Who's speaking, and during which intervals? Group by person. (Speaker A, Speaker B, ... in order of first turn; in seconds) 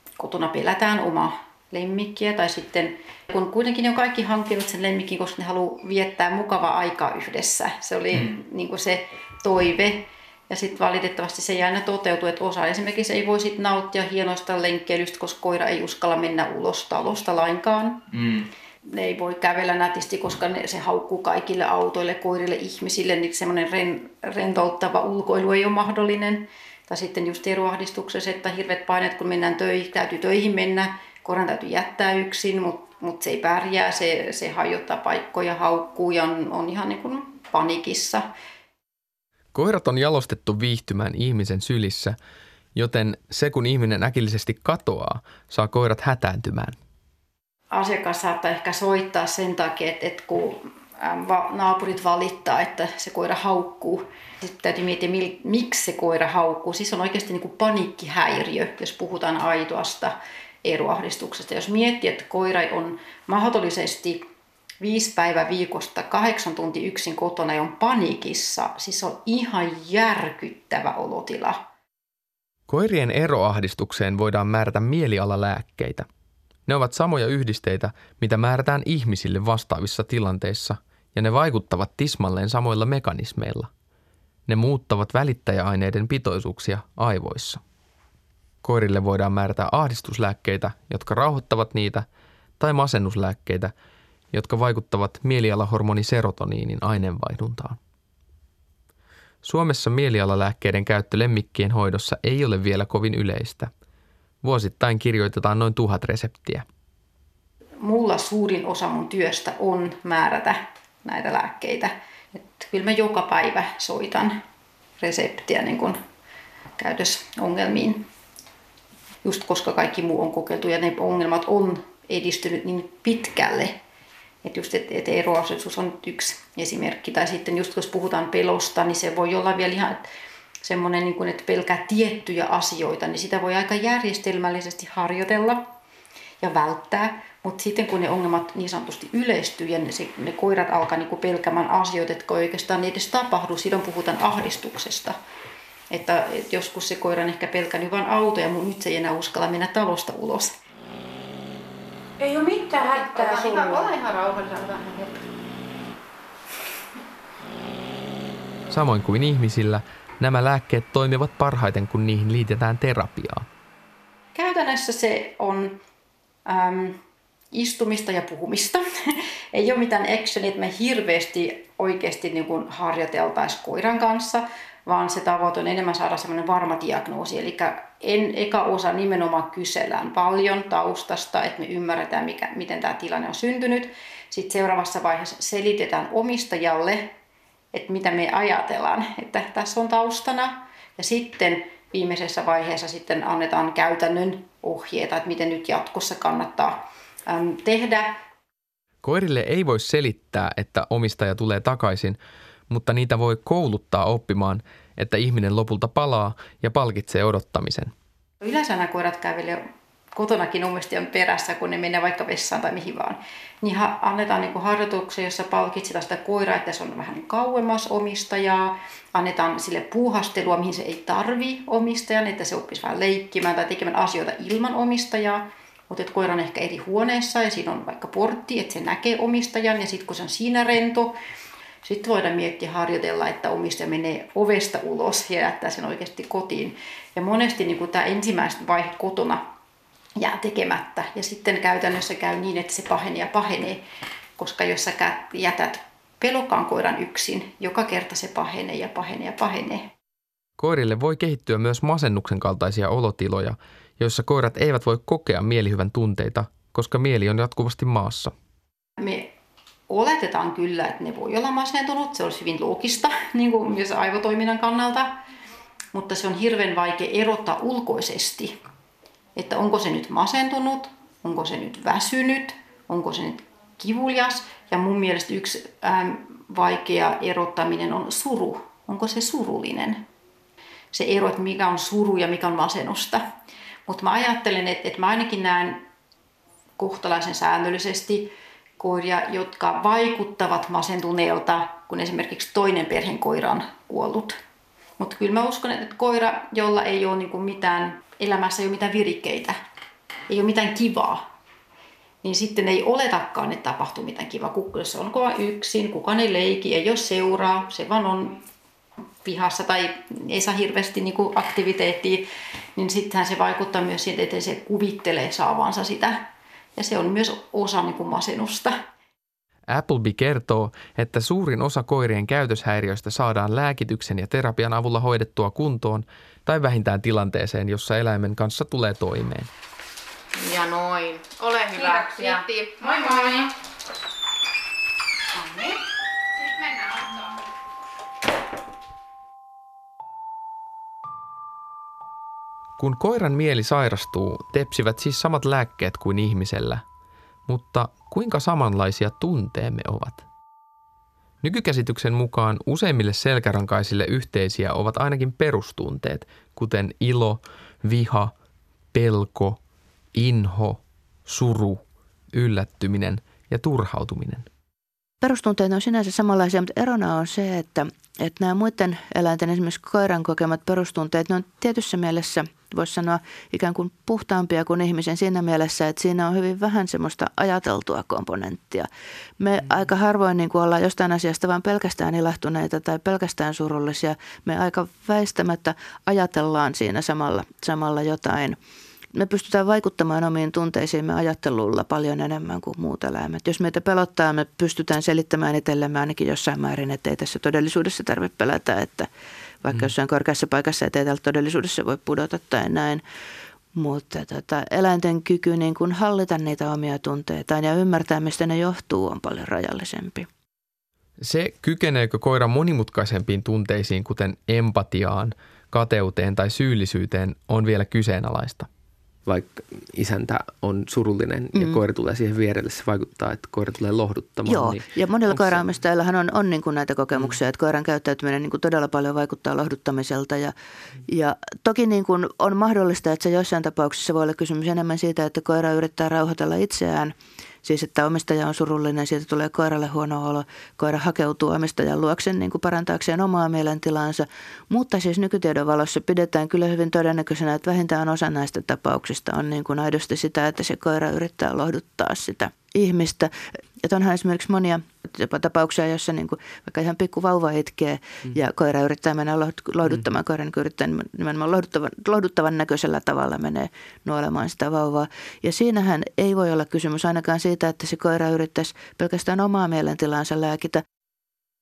Speaker A: 0.2-38.3, 47.7-64.2, 64.8-71.6, 107.8-114.4, 115.0-116.0, 116.8-118.0, 119.2-123.8, 124.4-130.0, 130.6-135.7, 136.4-145.2, 145.9-150.5, 152.4-155.2, 164.3-165.8, 166.4-167.0, 167.5-187.1, 187.7-198.1, 208.4-209.6, 210.1-231.1, 231.8-239.4, 240.2-243.8, 244.4-249.9, 259.0-259.3, 259.9-265.1, 265.9-268.6, 269.3-280.0, 280.9-283.2, 283.9-285.8, 286.8-294.4, 295.0-299.6, 300.3-301.2, 302.2-308.4, 309.2-318.8
Speaker B: 39.5-42.2, 42.7-46.7, 72.7-76.1, 76.7-83.7, 84.5-87.6, 88.6-92.0, 92.6-93.7, 94.3-97.8, 99.4-103.7, 104.4-106.6, 158.7-163.4, 199.0-202.2, 202.7-207.9, 250.6-258.3, 319.7-329.5, 342.8-346.8, 347.5-350.2, 351.4-358.3, 358.9-359.6, 360.1-364.4, 411.2-418.7
Speaker C: 153.3-153.8, 330.4-333.5, 335.3-335.8
Speaker D: 365.2-378.9, 379.4-388.6, 389.1-399.1, 399.6-403.0, 403.7-410.3, 421.5-421.8, 424.4-430.5, 431.1-470.8
Speaker E: 419.2-425.6